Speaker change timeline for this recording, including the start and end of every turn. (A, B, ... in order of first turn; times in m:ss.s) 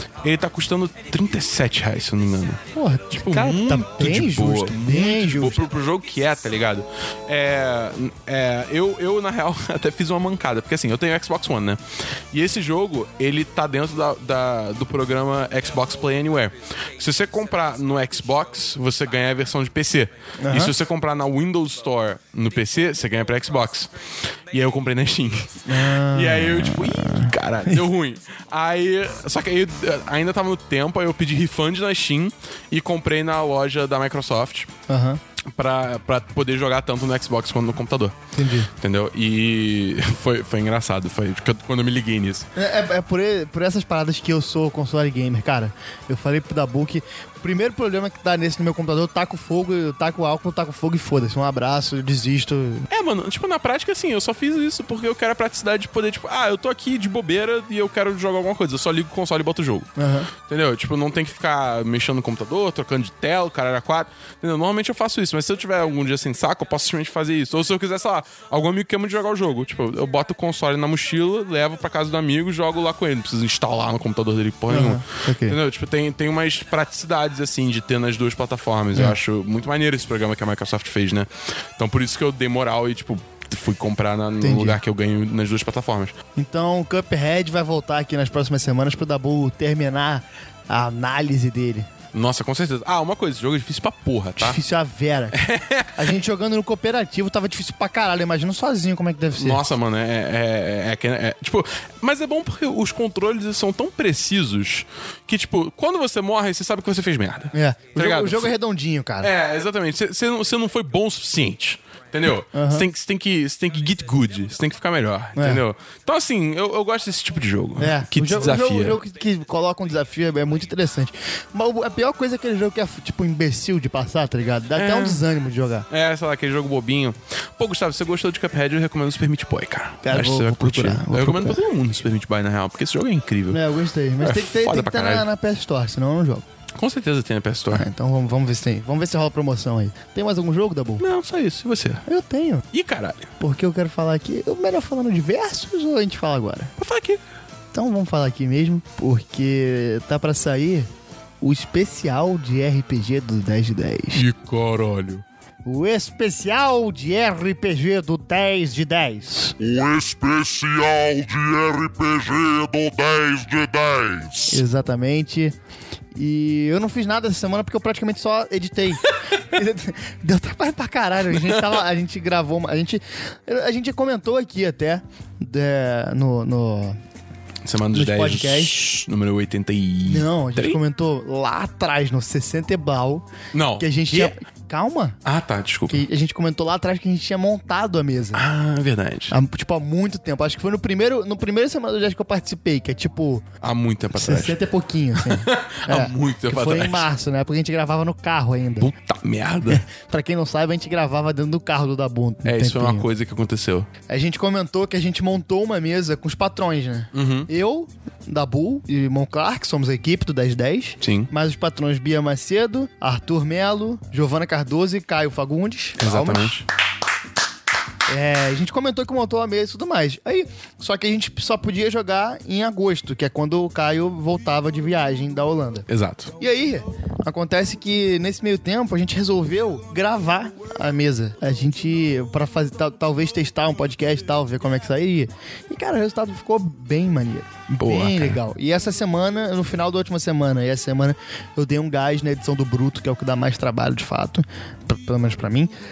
0:00.2-0:34.7 A
0:02.7-0:05.6 B
0:20.4-0:20.7 B
0:25.7-0:27.8 B
0:34.9-0:35.2 B
0:35.4-0:38.2 A
0:38.3-0:38.7 B
0:38.8-0:42.4 A
0:42.6-0:52.9 B
0:52.9-0:59.9 A
1:00.0-1:00.3 B
1:00.4-1:26.1 A
1:14.7-1:15.6 B
1:24.4-1:24.8 B
1:26.4-1:31.9 B
1:32.1-1:34.6 A
1:34.4-1:39.6 B
1:35.3-1:36.1 A
1:39.4-1:48.5 A
1:47.5-1:49.3 B
1:49.2-1:59.0 A
1:52.5-1:52.8 B
1:55.4-1:55.6 B
1:57.8-2:05.8 B
2:04.7-2:05.2 A
2:05.9-2:13.6 A
2:10.0-2:11.6 B
2:13.5-2:16.4 B
2:14.2-2:15.3 A
2:16.7-2:17.8 A
2:17.7-2:21.0 B
2:21.0-2:22.0 A
2:22.0-2:22.6 B
2:22.7-2:23.3 A
2:23.4-2:26.7 B
2:26.8-2:27.2 A
2:27.7-2:30.9 B
2:31.4-2:34.2 B
2:34.1-2:35.2 A
2:35.6-2:39.5 B
2:39.6-2:44.6 C
2:44.5-2:45.5 B
2:46.1-2:57.0 B
2:51.3-2:51.8 A
2:57.6-3:00.8 A
2:57.9-2:58.8 B
3:00.0-3:03.3 B
3:03.5-3:04.3 A
3:03.8-3:05.2 B
3:05.2-3:06.0 A
3:05.9-3:08.4 B
3:08.3-3:09.4 A
3:09.3-3:13.4 B
3:13.6-3:14.6 A
3:14.1-3:18.9 B
3:15.1-3:17.1 A
3:18.8-3:19.8 A
3:19.7-3:23.0 B
3:22.4-3:23.9 A
3:24.1-3:36.5 B
3:27.1-3:27.5 A
3:31.0-3:31.3 A
3:36.0-3:36.6 A
3:38.1-3:45.8 B
3:45.9-3:46.3 A
3:46.4-4:05.7 B
3:57.8-3:58.4 A